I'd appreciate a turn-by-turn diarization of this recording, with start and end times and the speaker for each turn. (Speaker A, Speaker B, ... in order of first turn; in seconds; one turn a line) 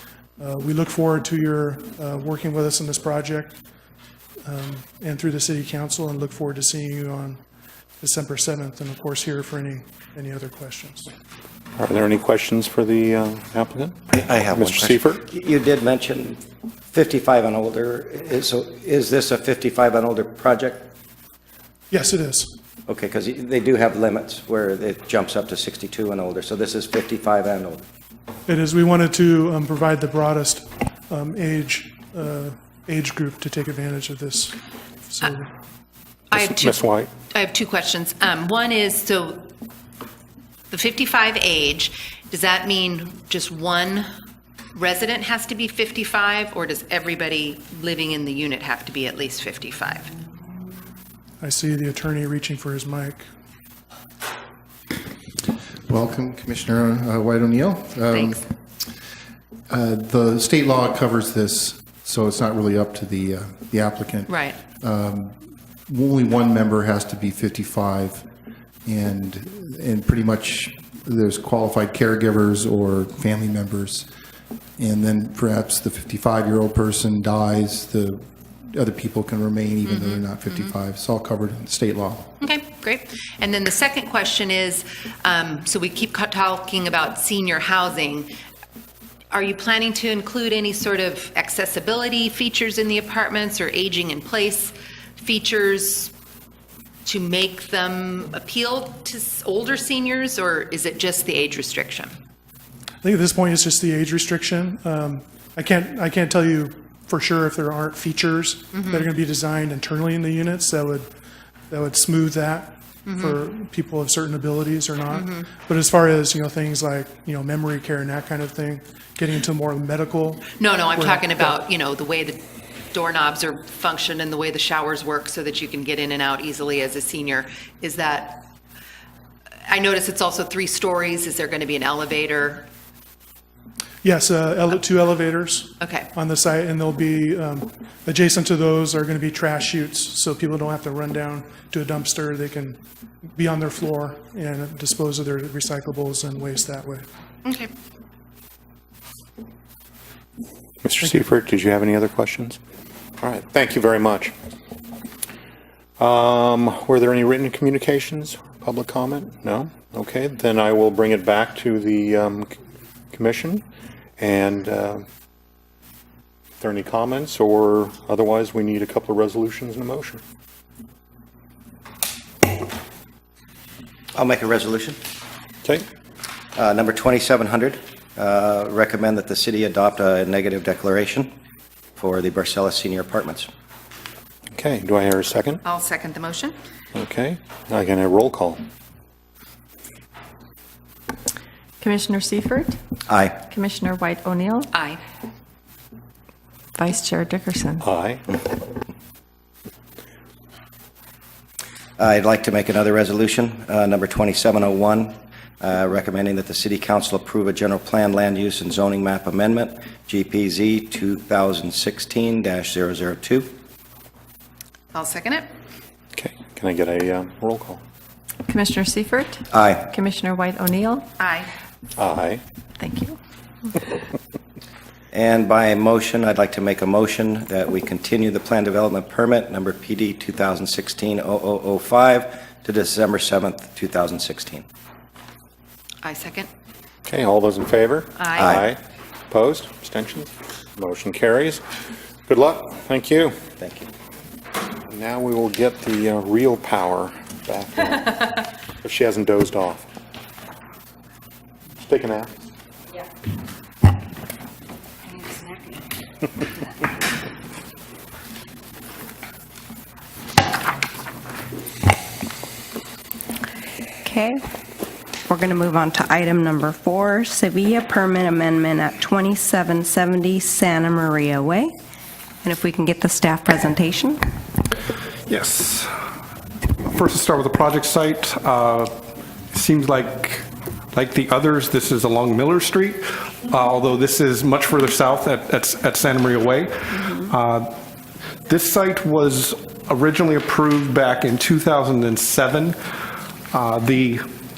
Speaker A: 0.4-3.6
Speaker A: 4.4-7.4
Speaker A: 8.0-11.1
Speaker B: 11.8-15.2
Speaker C: 14.1-16.4
Speaker C: 16.9-20.9
Speaker A: 21.9-22.6
Speaker C: 22.9-27.8
Speaker A: 28.4-35.5
Speaker B: 36.3-37.1
Speaker D: 36.3-36.8
Speaker D: 37.3-39.4
Speaker D: 40.7-44.1
Speaker D: 44.7-50.1
Speaker A: 51.4-53.3
Speaker E: 55.9-58.5
Speaker D: 58.1-58.4
Speaker E: 59.7-68.2
Speaker D: 64.3-64.6
Speaker E: 68.8-74.1
Speaker E: 74.8-82.3
Speaker D: 79.8-80.7
Speaker D: 82.4-88.3
Speaker D: 89.3-96.1
Speaker D: 97.0-102.1
Speaker A: 103.0-111.1
Speaker D: 108.7-109.1
Speaker A: 111.7-121.5
Speaker D: 113.0-113.4
Speaker D: 115.1-115.5
Speaker D: 120.6-122.4
Speaker D: 122.9-128.4
Speaker D: 129.7-132.7
Speaker A: 134.0-142.8
Speaker D: 135.8-136.1
Speaker A: 143.3-147.1
Speaker D: 147.4-147.7
Speaker B: 150.8-152.6
Speaker B: 153.2-154.3
Speaker B: 156.0-162.5
Speaker B: 163.1-163.6
Speaker B: 164.2-165.0
Speaker B: 166.6-170.2
Speaker C: 174.1-175.0
Speaker C: 176.6-181.3
Speaker C: 182.0-183.5
Speaker B: 184.5-185.6
Speaker D: 185.6-186.6
Speaker B: 186.9-188.6
Speaker F: 191.8-192.8
Speaker C: 193.1-193.4
Speaker F: 193.5-194.7
Speaker D: 194.7-195.0
Speaker F: 196.8-197.8
Speaker B: 197.8-198.2
Speaker C: 202.0-213.5
Speaker D: 214.9-215.5
Speaker B: 216.1-217.8
Speaker F: 218.5-221.1
Speaker C: 219.5-219.9
Speaker D: 221.2-221.5
Speaker B: 222.0-222.4
Speaker F: 222.8-223.2
Speaker C: 225.1-234.7
Speaker D: 236.0-236.5
Speaker B: 237.1-241.6
Speaker D: 238.2-238.6
Speaker C: 238.3-238.6
Speaker B: 242.3-243.4
Speaker C: 243.6-243.9
Speaker B: 244.9-249.9
Speaker B: 251.8-252.3
Speaker G: 264.0-264.4
Speaker G: 265.3-271.7
Speaker G: 272.4-274.2
Speaker H: 275.3-275.9
Speaker H: 276.9-278.9
Speaker H: 279.5-287.7
Speaker H: 288.5-292.8
Speaker H: 293.5-294.3